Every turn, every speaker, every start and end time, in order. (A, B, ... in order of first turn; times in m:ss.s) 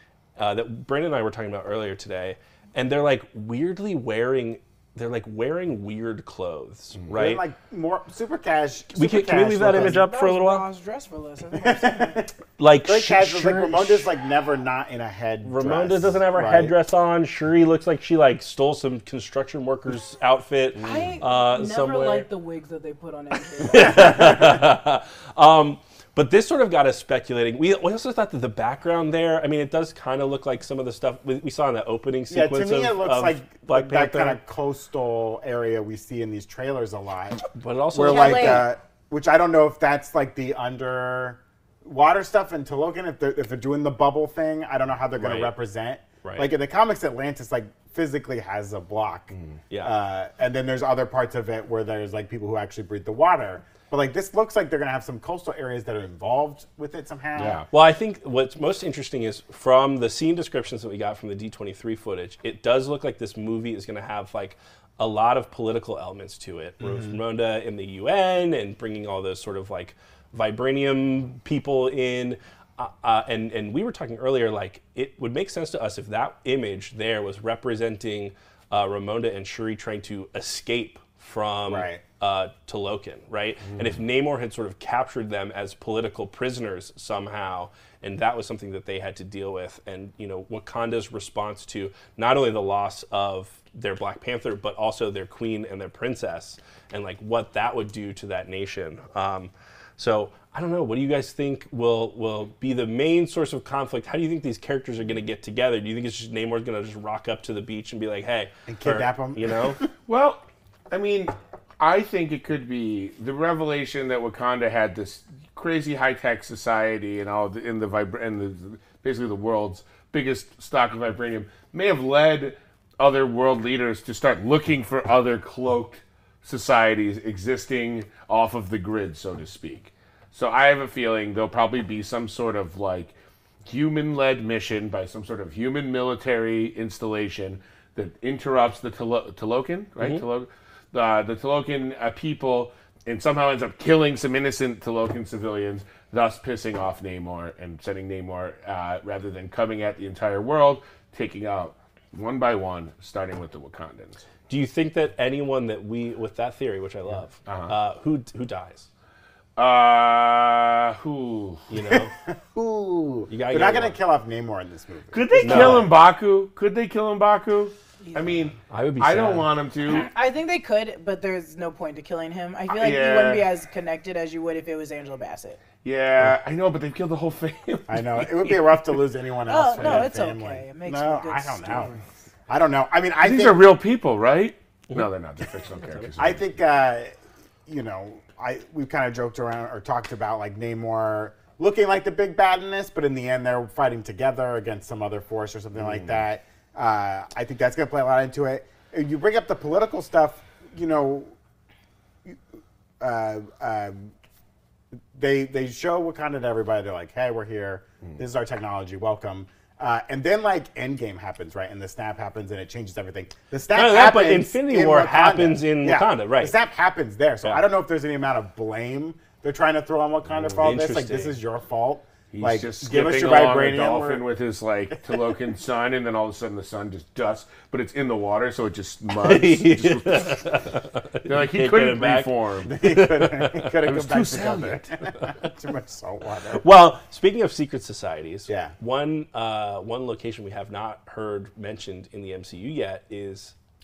0:00.4-0:07.4 A
0:07.1-0:10.0 B
0:08.9-0:10.6 A
0:09.6-0:12.2 C
0:11.6-0:16.7 B
0:12.6-0:14.1 A
0:15.4-0:22.3 A
0:20.8-0:24.2 C
0:20.8-0:21.2 D
0:23.6-0:34.4 A
0:23.8-0:24.4 B
0:32.3-0:57.6 B
0:37.5-0:38.7 A
0:38.0-0:38.7 C
0:45.2-0:45.5 A
0:46.2-0:46.5 A
0:57.4-0:57.6 D
0:57.7-1:49.8 A
1:06.8-1:07.1 B
1:21.7-1:22.0 B
1:48.7-1:49.9 B
1:50.0-2:13.1 D
2:13.6-2:34.3 D
2:34.5-2:38.8 A
2:37.4-2:37.7 D
2:39.6-2:41.7 D
2:41.7-2:42.1 A
2:41.8-2:45.9 B
2:43.3-2:44.0 A
2:45.1-2:50.1 D
2:45.4-2:45.9 A
2:48.7-2:49.5 A
2:49.9-2:55.6 C
2:52.7-2:53.4 D
2:55.8-2:58.5 D
2:57.9-3:01.9 B
2:59.5-3:01.8 C
2:59.8-3:00.1 D
3:02.5-3:03.6 B
3:03.2-3:06.4 D
3:06.2-3:07.1 B
3:07.6-3:21.3 B
3:15.8-3:16.2 D
3:23.0-3:24.1 B
3:25.1-3:44.2 B
3:33.7-3:36.5 A
3:40.3-3:40.6 D
3:40.6-3:41.4 A
3:42.3-3:50.5 D
3:49.2-3:53.7 A
3:51.2-3:52.8 D
3:52.7-3:56.6 B
3:53.8-3:54.9 D
3:56.5-4:03.5 A
3:58.5-3:58.7 B